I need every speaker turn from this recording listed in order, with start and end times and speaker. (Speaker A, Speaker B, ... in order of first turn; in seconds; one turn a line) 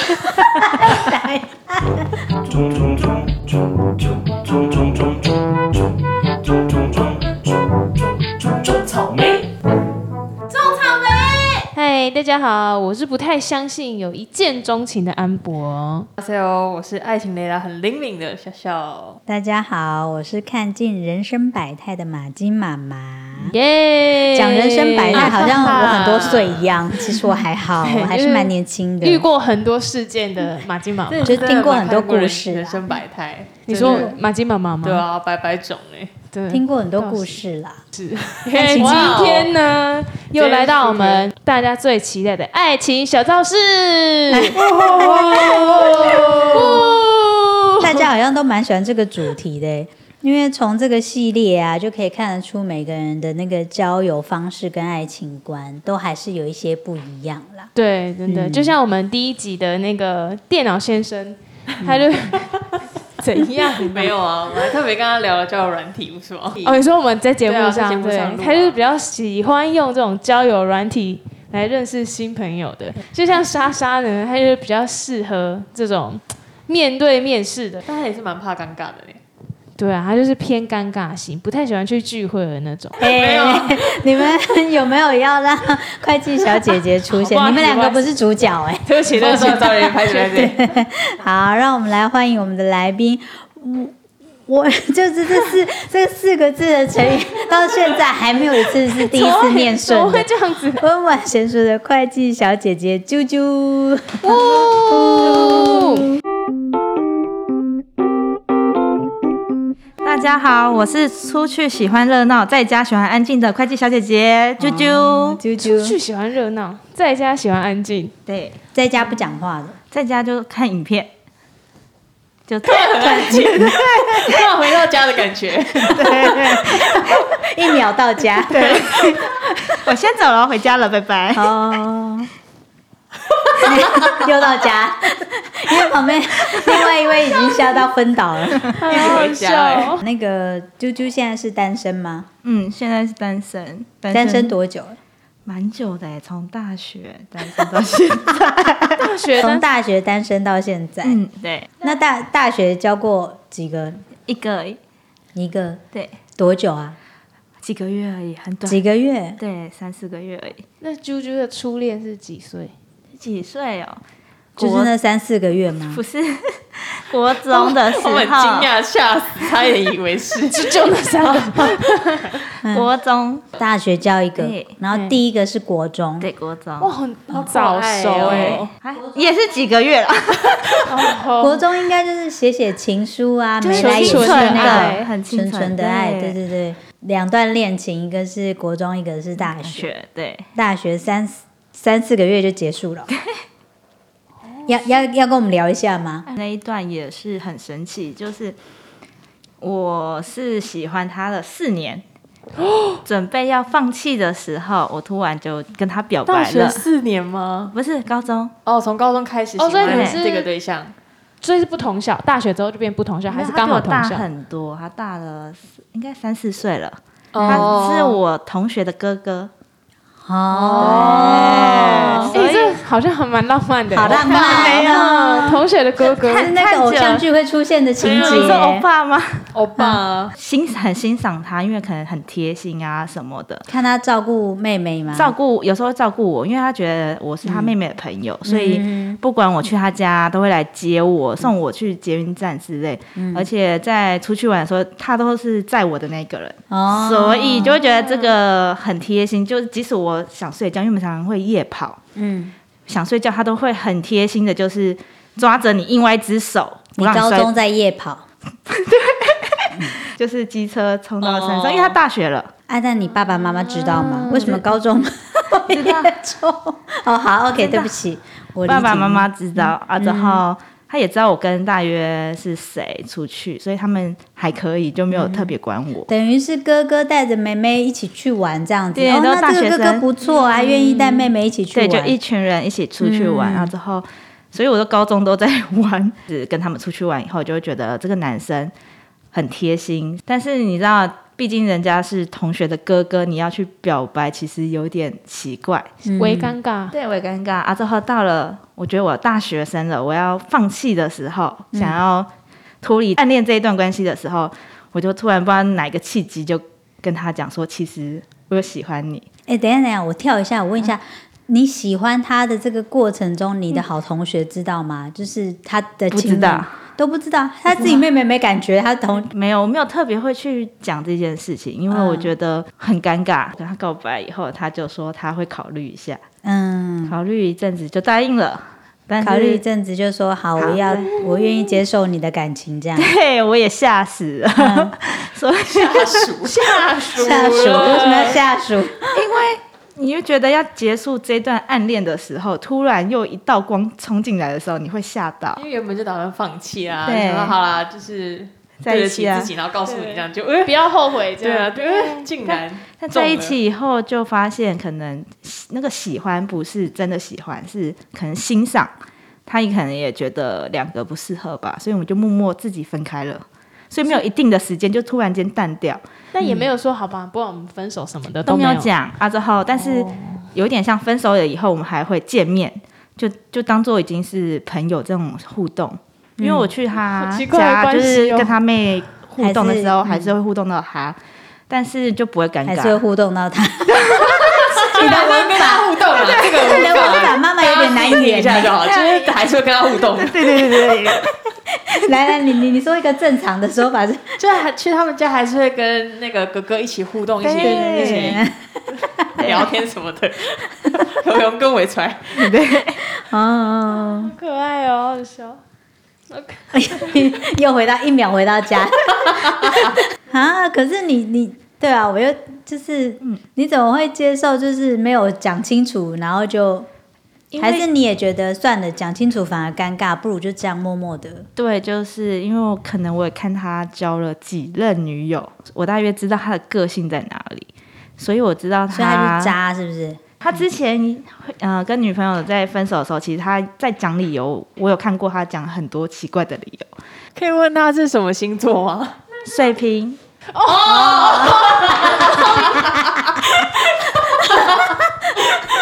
Speaker A: 0.3-2.2
Speaker B: 10.5-16.1
Speaker C: 16.2-19.2
Speaker A: 19.3-23.6
Speaker B: 23.4-26.0
Speaker A: 24.3-29.2
Speaker C: 25.1-26.8
Speaker B: 27.8-31.5
Speaker C: 31.1-34.2
Speaker A: 31.1-32.8
Speaker B: 33.7-35.0
Speaker A: 33.8-34.1
Speaker C: 34.8-36.2
Speaker B: 36.3-37.4
Speaker A: 36.5-37.8
Speaker B: 37.9-47.0
Speaker A: 38.5-39.2
Speaker C: 38.6-39.6
Speaker C: 40.4-41.3
Speaker A: 44.3-46.9
Speaker C: 44.6-47.4
Speaker A: 47.8-57.7
Speaker B: 57.8-62.7
Speaker A: 58.3-58.8
Speaker A: 61.8-62.1
Speaker B: 63.2-64.2
Speaker C: 63.7-66.8
Speaker B: 66.6-77.8
Speaker C: 67.5-68.8
Speaker C: 77.8-79.2
Speaker B: 79.8-83.0
Speaker C: 83.0-84.0
Speaker A: 83.0-94.0
Speaker B: 87.0-88.2
Speaker C: 88.9-90.6
Speaker B: 89.0-90.3
Speaker A: 94.5-104.5
Speaker B: 98.8-100.8
Speaker B: 104.2-106.1
Speaker D: 110.0-115.4
Speaker A: 114.6-116.0
Speaker B: 115.6-118.1
Speaker D: 118.3-118.6
Speaker A: 118.7-119.8
Speaker D: 119.9-121.1
Speaker D: 122.5-124.4
Speaker C: 122.7-126.2
Speaker A: 123.0-123.8
Speaker D: 125.7-127.2
Speaker A: 126.7-129.1
Speaker D: 128.5-131.5
Speaker A: 131.3-132.3
Speaker A: 133.6-139.2
Speaker B: 138.8-140.0
Speaker C: 138.8-140.0
Speaker A: 140.0-142.3
Speaker D: 142.4-144.5
Speaker A: 144.1-145.0
Speaker D: 145.5-149.1
Speaker A: 147.4-147.7
Speaker B: 149.0-149.7
Speaker A: 149.4-151.2
Speaker D: 151.0-151.7
Speaker A: 151.8-154.0
Speaker D: 154.3-154.8
Speaker A: 155.3-155.8
Speaker D: 155.9-156.2
Speaker A: 156.4-157.0
Speaker D: 157.6-158.8
Speaker A: 158.7-159.4
Speaker D: 159.4-160.6
Speaker B: 160.8-162.7
Speaker D: 163.2-164.0
Speaker D: 164.6-164.9
Speaker A: 164.6-166.0
Speaker D: 165.9-168.7
Speaker C: 167.5-171.8
Speaker B: 170.5-172.4
Speaker A: 172.6-172.9
Speaker D: 172.7-173.5
Speaker A: 173.6-176.3
Speaker D: 174.4-174.7
Speaker B: 174.9-175.2
Speaker D: 176.2-176.9
Speaker B: 176.8-178.7
Speaker C: 177.4-178.7
Speaker D: 178.2-181.0
Speaker B: 180.8-181.7
Speaker A: 181.4-189.9
Speaker D: 183.6-186.4
Speaker B: 183.7-185.1
Speaker D: 189.6-190.5
Speaker A: 190.6-193.1
Speaker A: 194.7-196.2
Speaker D: 196.3-198.6
Speaker D: 199.6-202.0
Speaker B: 202.6-203.0
Speaker D: 203.1-206.8
Speaker C: 206.3-207.7
Speaker D: 207.7-208.5
Speaker C: 208.7-210.9
Speaker B: 209.6-210.5
Speaker D: 209.8-210.2
Speaker B: 211.4-214.3
Speaker D: 213.3-219.5
Speaker C: 217.3-218.2
Speaker A: 217.4-217.7
Speaker A: 220.2-222.3
Speaker C: 220.5-222.3
Speaker B: 220.8-221.2
Speaker D: 221.1-222.8
Speaker B: 222.3-226.5
Speaker A: 223.9-225.6
Speaker D: 224.2-225.1
Speaker C: 224.3-224.8
Speaker D: 226.0-227.2
Speaker A: 226.2-228.8
Speaker C: 228.0-228.6
Speaker D: 228.1-229.5
Speaker C: 229.5-230.3
Speaker D: 230.3-233.7
Speaker A: 233.7-235.3
Speaker D: 235.1-252.0
Speaker A: 237.4-237.7
Speaker A: 238.5-239.2
Speaker A: 243.2-243.5
Speaker A: 246.7-247.8
Speaker B: 247.9-248.3
Speaker A: 252.2-252.5
Speaker D: 252.9-257.5
Speaker A: 257.0-258.3
Speaker D: 258.7-262.5
Speaker C: 261.2-262.0
Speaker A: 262.7-270.4
Speaker D: 265.6-266.1
Speaker D: 267.5-267.9
Speaker D: 268.6-276.1
Speaker A: 275.1-275.5
Speaker A: 276.1-282.1
Speaker D: 278.9-280.1
Speaker B: 280.3-281.3
Speaker D: 281.7-288.7
Speaker A: 283.0-283.7
Speaker D: 289.3-296.0
Speaker A: 296.1-296.5
Speaker B: 296.2-297.0
Speaker D: 296.9-302.3
Speaker A: 301.7-302.0
Speaker D: 302.8-309.2
Speaker A: 309.5-319.3
Speaker D: 316.1-316.7
Speaker D: 317.7-318.0
Speaker D: 319.2-326.2
Speaker A: 321.9-322.3
Speaker A: 326.4-327.2
Speaker D: 327.1-329.6
Speaker A: 329.2-333.1
Speaker D: 330.6-331.3
Speaker D: 333.0-336.6
Speaker A: 334.6-334.9
Speaker C: 335.7-338.4
Speaker A: 337.2-339.2
Speaker B: 337.2-338.3
Speaker D: 337.6-338.0
Speaker D: 339.1-345.6
Speaker C: 345.6-353.6
Speaker D: 347.1-347.6
Speaker D: 348.8-349.5
Speaker B: 349.9-352.3
Speaker D: 353.0-358.9
Speaker D: 359.5-366.6
Speaker B: 366.3-368.9
Speaker D: 368.4-381.2
Speaker B: 369.8-370.4
Speaker A: 376.4-376.7
Speaker B: 377.1-378.5
Speaker A: 379.4-380.3
Speaker D: 381.7-383.0
Speaker A: 382.6-388.8
Speaker D: 383.9-384.4
Speaker C: 384.4-390.8
Speaker D: 386.1-386.9
Speaker D: 388.8-389.3
Speaker D: 390.1-391.3
Speaker A: 391.9-394.4
Speaker C: 394.4-398.4
Speaker D: 397.4-398.4
Speaker A: 397.6-399.4
Speaker C: 399.3-402.6
Speaker D: 399.4-399.7
Speaker D: 402.3-403.0
Speaker A: 403.1-404.3
Speaker B: 403.9-405.6
Speaker B: 406.3-407.3
Speaker A: 406.7-416.9
Speaker D: 417.5-417.9
Speaker A: 417.6-421.5
Speaker D: 421.6-429.6
Speaker A: 428.9-430.2
Speaker D: 430.4-436.9
Speaker C: 437.4-439.2
Speaker D: 439.4-440.2
Speaker B: 440.5-443.0
Speaker A: 440.8-445.5
Speaker C: 441.0-442.8